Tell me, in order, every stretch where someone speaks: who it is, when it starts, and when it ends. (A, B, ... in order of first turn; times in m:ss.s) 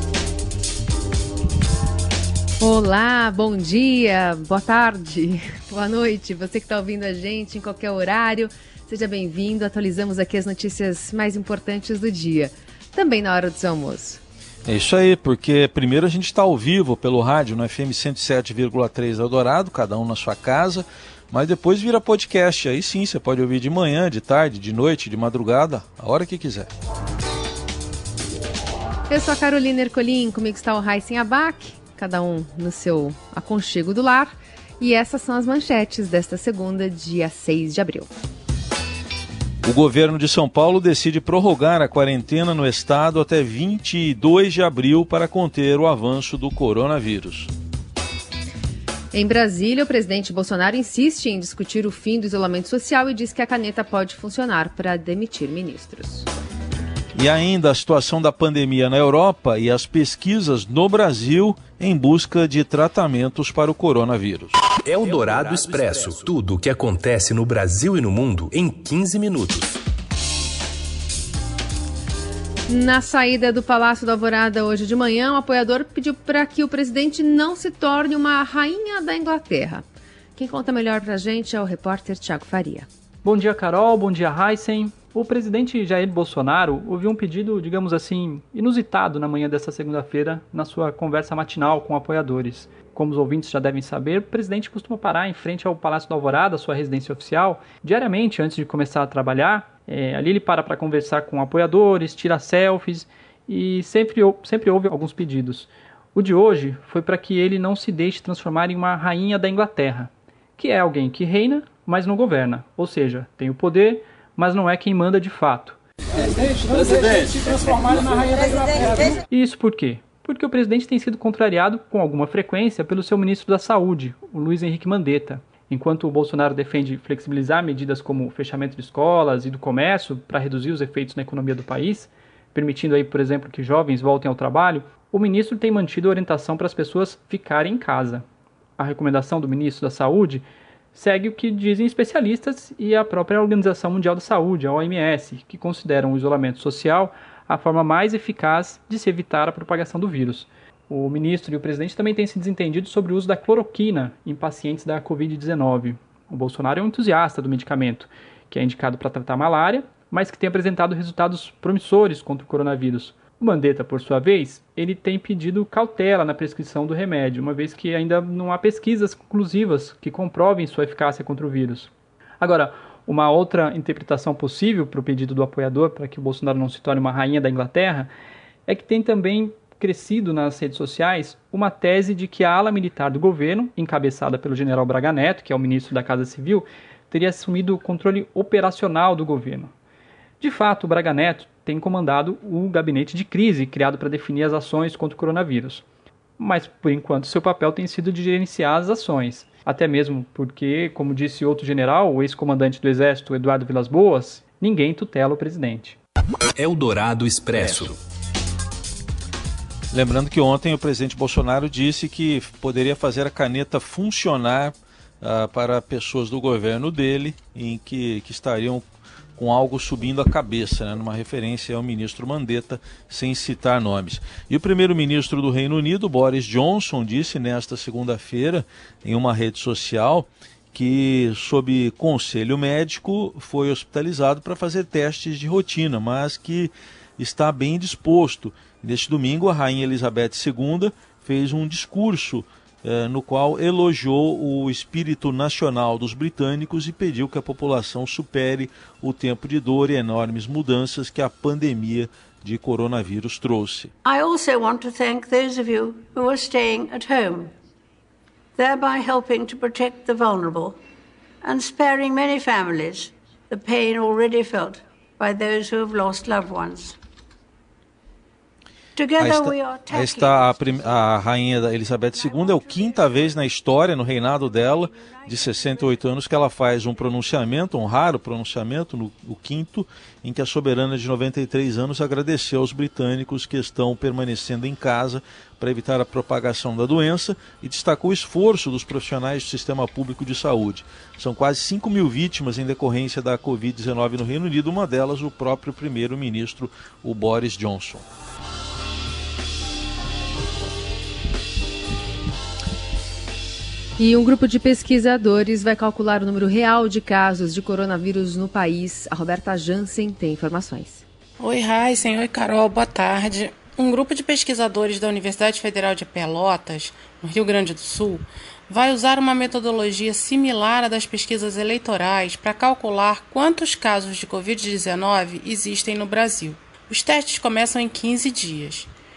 0:02.6-0:14.2 A
0:14.6-0:26.7 B
0:29.1-0:38.1 A
0:39.6-0:47.5 B
0:49.1-0:56.3 A
0:57.1-1:04.6 B
1:04.8-1:09.8 C
1:12.7-1:19.8 A
1:20.4-1:22.9 A
1:23.2-1:55.8 D
1:56.4-2:18.2 D
2:18.8-2:58.1 D
2:58.7-3:09.7 D
3:10.4-3:15.8 D
3:16.4-3:26.0 D
3:26.6-3:28.0 C
3:29.9-3:38.8 B
3:39.4-4:13.9 B
4:14.0-4:17.5 E
4:18.6-4:20.8 E
4:21.4-4:27.0 E
4:29.0-4:30.9 E
4:29.2-4:58.0 B
5:04.0-5:11.0 A
5:11.4-5:28.9 F